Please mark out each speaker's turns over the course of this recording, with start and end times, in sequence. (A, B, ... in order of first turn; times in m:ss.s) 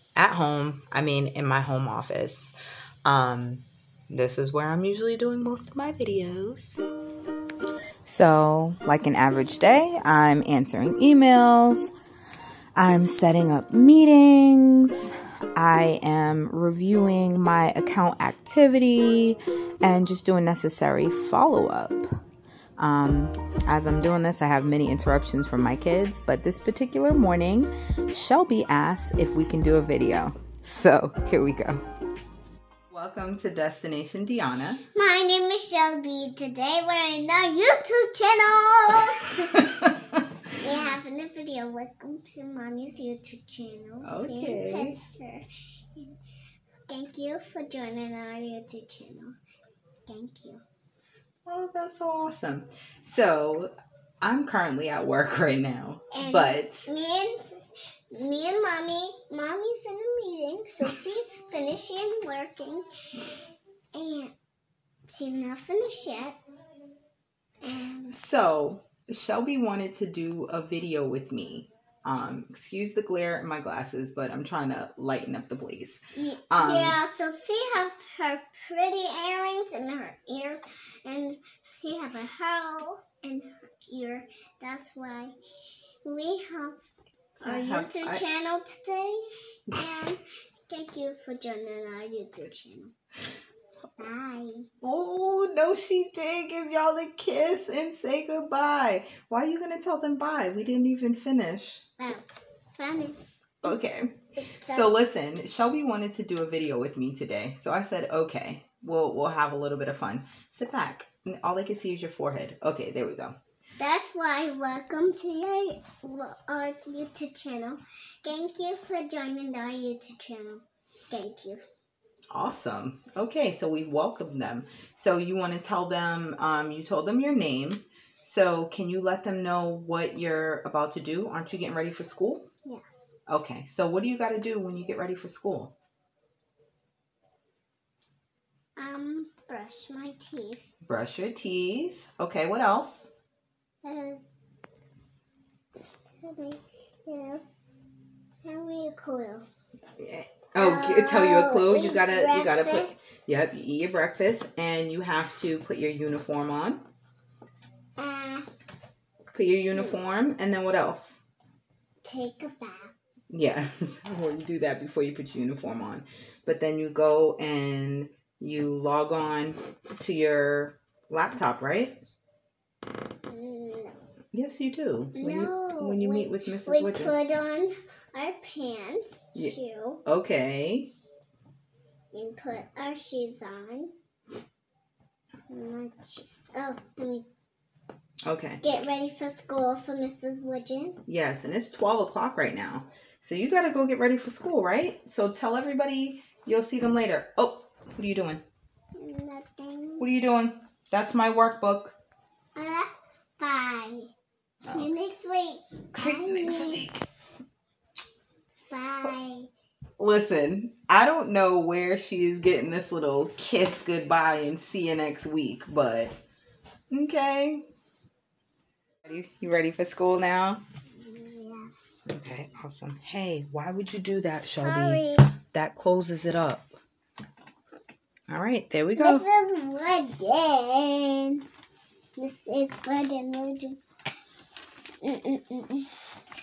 0:00.2-0:06.8 A
0:08.0-0:11.9 A
0:12.8-0:22.1 A
0:22.8-0:31.8 A
0:32.9-0:34.8 A
0:34.9-0:39.7 B
0:39.6-0:40.2 A
0:40.6-0:46.2 B
0:44.0-0:45.0 A
0:46.9-0:49.4 B
0:50.1-0:50.6 B
0:51.5-0:56.9 A
0:56.1-0:57.6 B
0:58.1-1:03.4 B
1:04.0-1:04.3 B
1:05.1-1:06.4 B
1:07.6-1:08.2 B
1:08.1-1:17.0 A
1:16.2-1:26.8 B
1:27.4-1:28.2 A
1:27.4-1:32.9 B
1:34.0-1:34.7 B
1:34.8-1:41.8 A
1:42.0-1:43.8 B
1:43.6-1:53.4 A
1:44.4-1:44.9 B
1:53.8-2:01.6 B
2:02.3-2:12.5 A
2:12.6-2:13.2 B
2:13.3-2:15.7 A
2:18.8-2:20.6 B
2:20.8-2:23.1 A
2:23.8-2:24.2 B
2:26.2-2:27.4 B
2:28.4-2:29.5 B
2:30.0-2:36.8 A
2:30.6-2:33.1 B
2:38.0-2:38.5 B
2:39.3-2:41.2 A
2:42.0-2:42.9 B
2:43.3-2:52.0 A
2:53.3-2:54.0 B
2:54.3-2:57.1 A
2:55.2-3:00.0 B
2:59.4-3:00.9 A
3:02.1-3:03.9 B
3:05.5-3:07.3 B
3:08.3-3:08.6 A
3:08.6-3:11.0 B
3:11.1-3:18.4 A
3:19.0-3:20.1 B
3:20.0-3:22.0 A
3:22.6-3:24.1 B
3:24.6-3:26.8 B
3:26.0-3:27.0 A
3:28.7-3:29.5 B
3:30.0-3:36.1 A
3:36.9-3:37.6 A
3:39.0-3:40.6 A
3:41.0-3:42.1 B
3:42.1-3:46.7 A
3:44.6-3:45.3 B
3:48.3-3:49.2 A
3:49.0-3:51.4 B
3:52.2-3:53.8 B
3:55.0-3:55.9 B